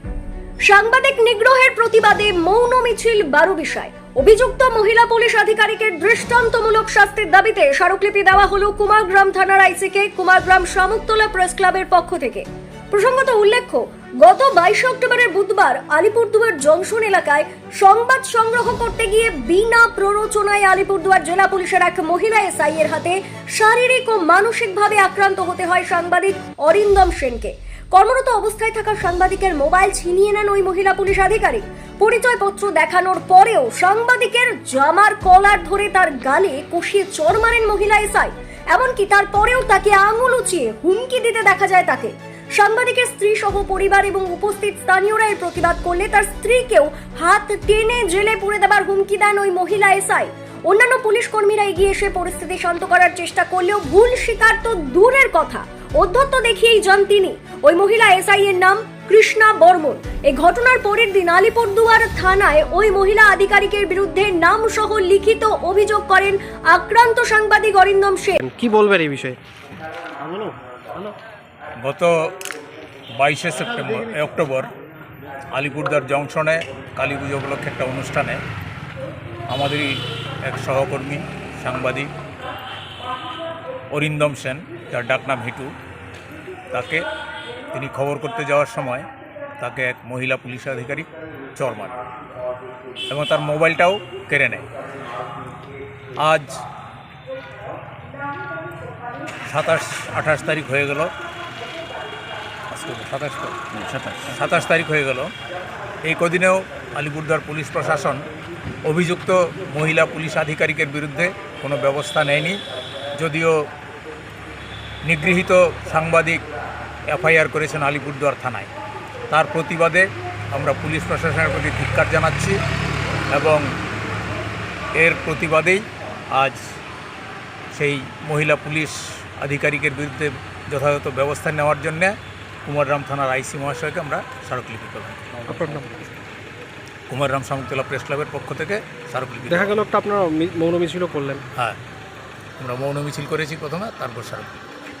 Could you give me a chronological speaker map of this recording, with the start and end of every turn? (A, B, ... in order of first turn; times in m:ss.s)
0:00.6-1:08.4 A
1:08.4-1:09.4 B
1:10.2-1:11.1 B
1:11.8-1:12.1 C
1:13.2-1:14.7 C
1:15.5-1:18.4 C
1:19.5-1:22.1 C
1:23.9-1:25.7 C
1:26.7-1:27.1 C
1:27.7-1:29.1 C
1:29.6-1:31.9 C
1:33.1-1:34.7 C
1:36.2-1:36.6 C
1:39.4-1:41.1 C
1:42.7-1:43.7 C
1:44.2-1:45.3 C
1:46.0-1:48.2 C
1:48.8-1:52.6 C
1:53.1-1:53.6 C
1:55.0-1:56.4 C
1:57.1-1:58.7 C
1:59.3-2:02.6 C
2:03.3-2:03.7 C
2:05.0-2:06.6 C
2:07.7-2:12.1 C
2:12.6-2:15.4 C
2:15.5-2:16.0 B
2:17.1-2:19.7 C
2:19.5-2:21.4 B
2:22.6-2:24.6 C